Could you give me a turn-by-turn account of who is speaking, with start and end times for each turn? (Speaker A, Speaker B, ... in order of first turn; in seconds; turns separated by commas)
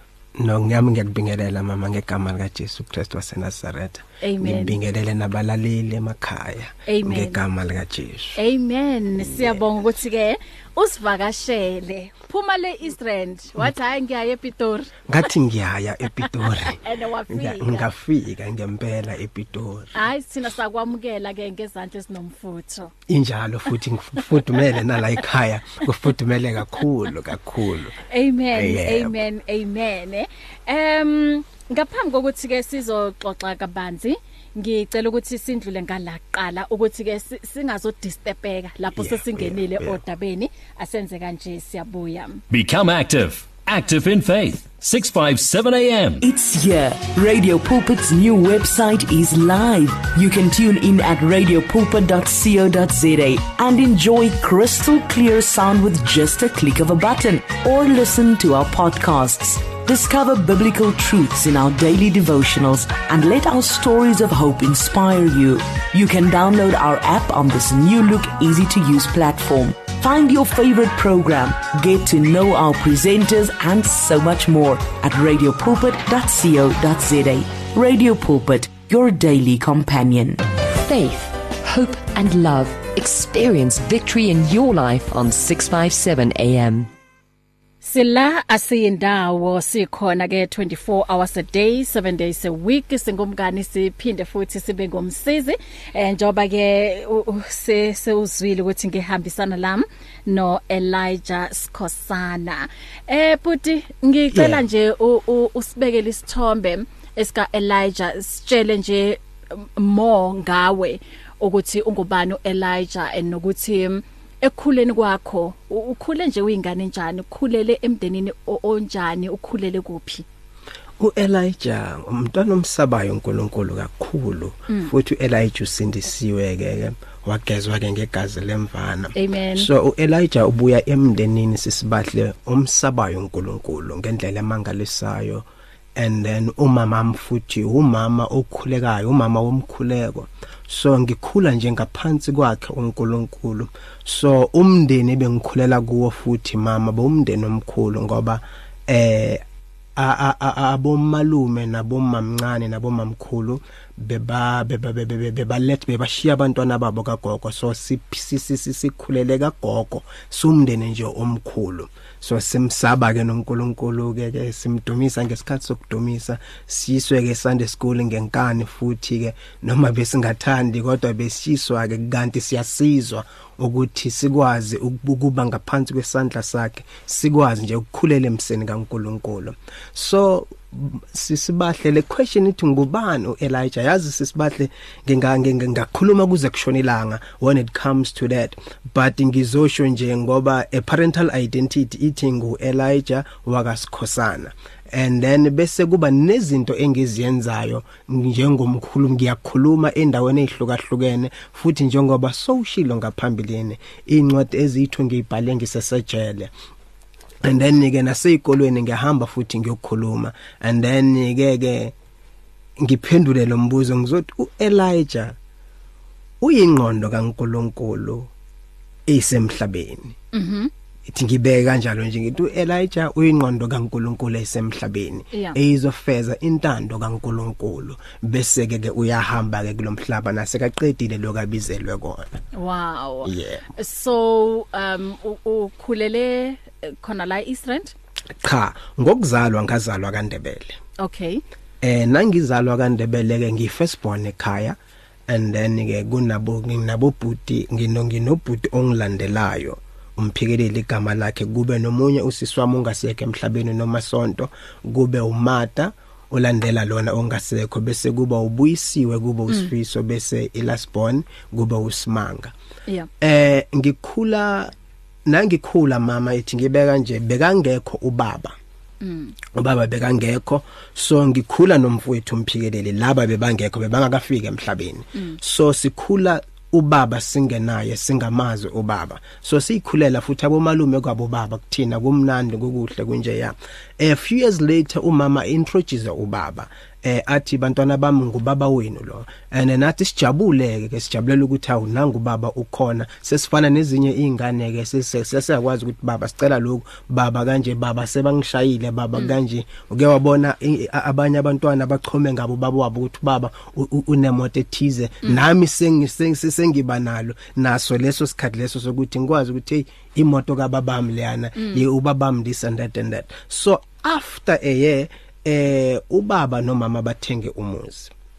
Speaker A: 0.4-8.4, Speaker B: 4.2-4.8, Speaker B: 6.9-7.4, Speaker B: 8.3-15.0, Speaker A: 9.2-9.7, Speaker A: 15.1-19.9, Speaker B: 16.2-17.9, Speaker B: 19.9-22.9, Speaker A: 23.1-28.0, Speaker B: 24.5-24.8, Speaker B: 28.0-42.4, Speaker A: 28.5-29.2, Speaker A: 38.9-40.0, Speaker C: 42.5-46.2, Speaker D: 46.2-80.4, Speaker E: 80.7-86.9, Speaker B: 87.8-120.2, Speaker A: 104.3-104.6, Speaker A: 121.0-149.4, Speaker B: 129.1-129.7, Speaker A: 149.9-206.5, Speaker A: 207.4-211.9, Speaker A: 212.8-215.4, Speaker A: 216.4-218.3, Speaker A: 219.1-220.2, Speaker B: 220.3-220.7, Speaker A: 221.1-232.4, Speaker B: 225.3-225.6, Speaker B: 232.5-237.9, Speaker A: 233.2-233.6, Speaker A: 238.4-240.8, Speaker B: 241.0-241.4, Speaker A: 241.8-262.5, Speaker A: 263.2-264.7, Speaker A: 265.2-268.6, Speaker B: 269.0-269.4, Speaker A: 269.5-318.1, Speaker B: 311.6-311.8